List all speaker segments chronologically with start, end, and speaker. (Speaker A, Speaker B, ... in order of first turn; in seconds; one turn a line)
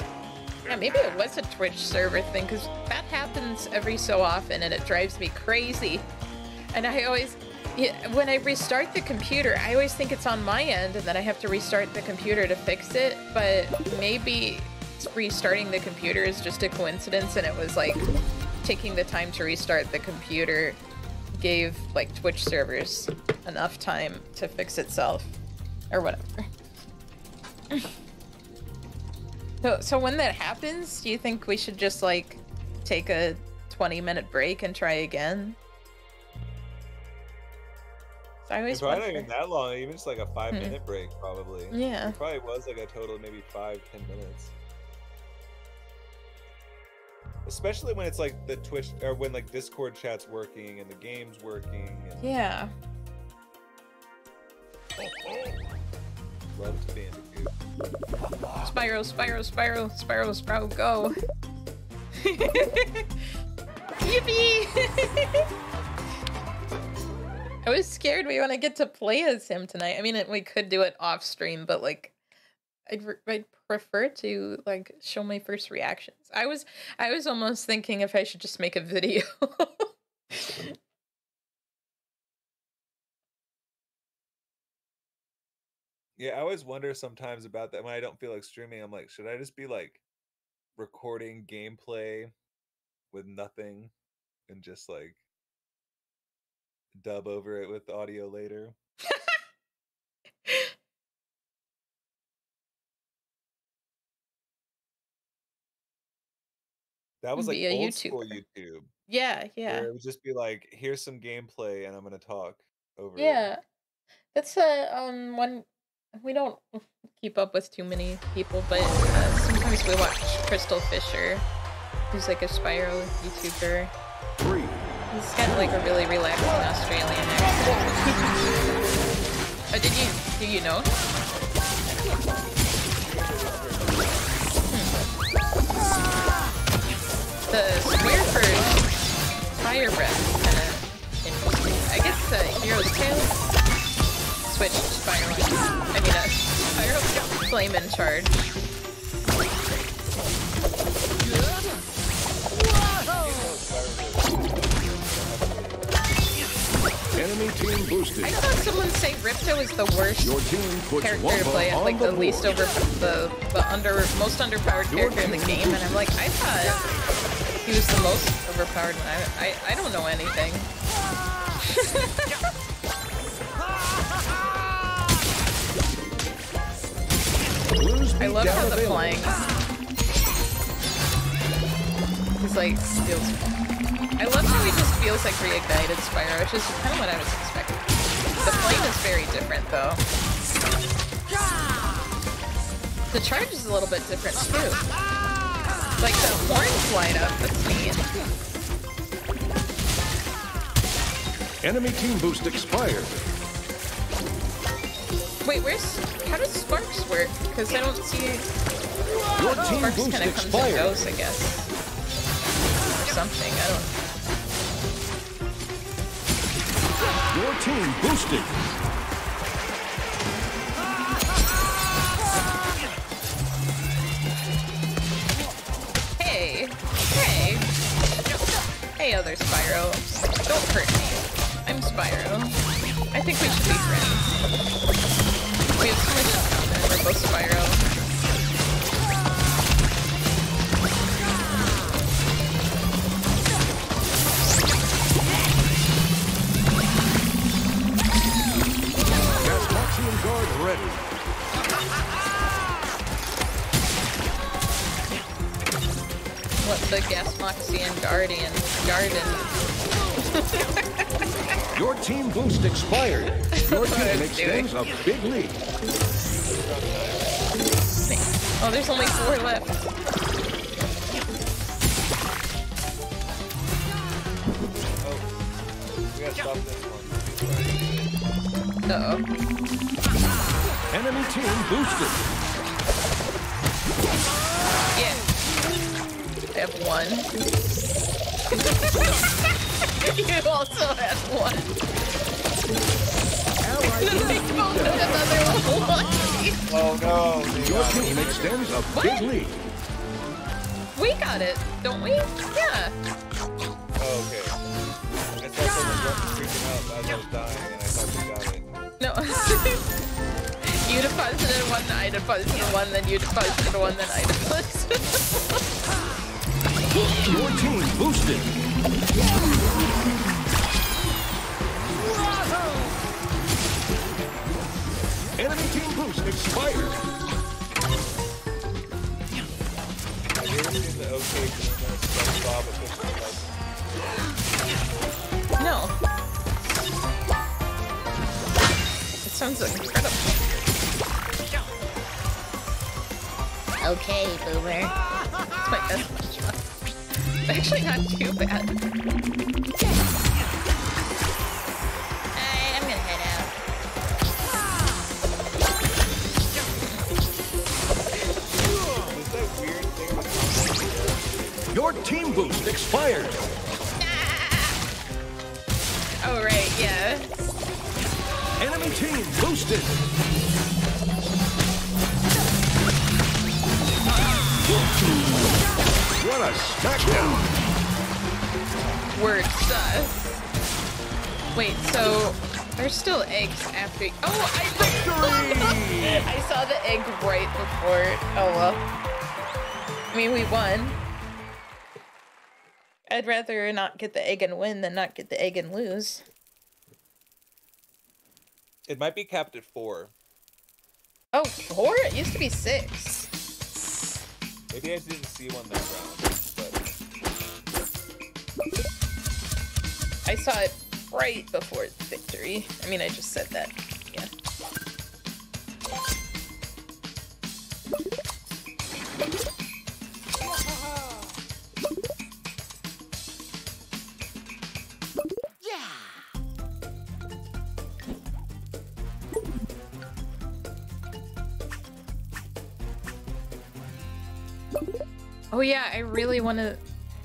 Speaker A: 0.7-6.1
Speaker A: 6.7-18.1
Speaker A: 18.6-20.8
Speaker A: 21.3-25.4
Speaker A: 25.9-26.5
Speaker A: 29.6-35.6
Speaker A: 38.5-39.3
Speaker B: 38.7-44.5
Speaker A: 40.5-40.8
Speaker A: 41.7-42.2
Speaker B: 47.5-52.4
Speaker A: 52.2-52.7
Speaker B: 56.5-57.5
Speaker A: 58.6-61.1
Speaker A: 62.2-63.1
Speaker A: 64.0-65.5
Speaker A: 67.7-72.2
Speaker A: 72.9-80.8
Speaker B: 86.2-90.0
Speaker B: 90.8-92.3
Speaker B: 93.1-93.9
Speaker B: 94.5-95.2
Speaker B: 96.9-98.8
Speaker A: 99.1-99.3
Speaker A: 100.5-100.7
Speaker B: 107.2-108.9
Speaker A: 107.4-108.4
Speaker A: 109.1-109.9
Speaker B: 109.7-113.5
Speaker A: 113.2-113.6
Speaker A: 114.3-121.5
Speaker A: 122.1-123.9
Speaker C: 124.4-124.8
Speaker A: 125.1-128.4
Speaker A: 129.7-130.9
Speaker B: 132.9-134.3
Speaker A: 137.5-138.8
Speaker A: 139.6-143.4
Speaker A: 144.4-148.5
Speaker B: 153.2-155.9
Speaker C: 157.2-158.4
Speaker A: 158.2-160.3
Speaker C: 160.2-162.7
Speaker A: 161.0-166.9
Speaker C: 164.9-165.9
Speaker A: 167.6-170.7
Speaker A: 171.7-172.3
Speaker C: 177.7-179.3
Speaker A: 178.2-179.3
Speaker A: 182.4-183.4
Speaker A: 184.2-187.8
Speaker A: 188.4-190.0
Speaker A: 193.1-194.8
Speaker A: 196.0-198.1
Speaker C: 201.6-203.2
Speaker A: 205.4-208.5
Speaker C: 209.4-211.0
Speaker A: 209.5-211.7
Speaker A: 213.0-213.9
Speaker C: 217.3-218.6
Speaker A: 226.2-227.7
Speaker A: 229.0-232.6
Speaker A: 233.1-234.4
Speaker A: 235.8-237.8
Speaker C: 249.4-251.0
Speaker A: 256.6-259.6
Speaker A: 260.3-261.1
Speaker C: 261.7-265.6
Speaker A: 263.5-264.7
Speaker B: 266.3-267.7
Speaker A: 268.1-269.8
Speaker B: 275.0-275.3
Speaker B: 276.1-278.2
Speaker A: 278.9-279.2
Speaker C: 280.9-282.2
Speaker A: 284.9-285.2
Speaker A: 286.5-287.3
Speaker A: 288.5-291.8
Speaker C: 293.6-295.3
Speaker A: 294.0-296.6
Speaker B: 296.7-298.9
Speaker C: 297.6-299.6
Speaker A: 298.9-299.2
Speaker A: 301.0-302.9
Speaker B: 304.0-304.6
Speaker B: 305.4-308.9
Speaker A: 309.0-309.8
Speaker A: 310.7-315.6
Speaker C: 316.9-318.5
Speaker C: 325.4-327.0
Speaker B: 330.4-333.5
Speaker A: 335.6-335.9
Speaker A: 339.2-340.4
Speaker B: 339.7-340.7
Speaker A: 343.8-344.9
Speaker A: 345.6-346.6
Speaker A: 347.4-348.7
Speaker A: 352.4-353.6
Speaker B: 359.0-363.9
Speaker C: 361.7-363.4
Speaker A: 364.0-364.8
Speaker A: 366.2-367.3
Speaker C: 368.6-370.0
Speaker C: 376.2-377.5
Speaker A: 379.1-380.4
Speaker A: 381.6-388.8
Speaker C: 384.8-386.2
Speaker A: 390.1-391.0
Speaker A: 393.1-396.2
Speaker B: 398.9-400.1
Speaker A: 401.3-403.3
Speaker B: 404.7-406.8
Speaker A: 410.3-414.3
Speaker A: 435.5-436.8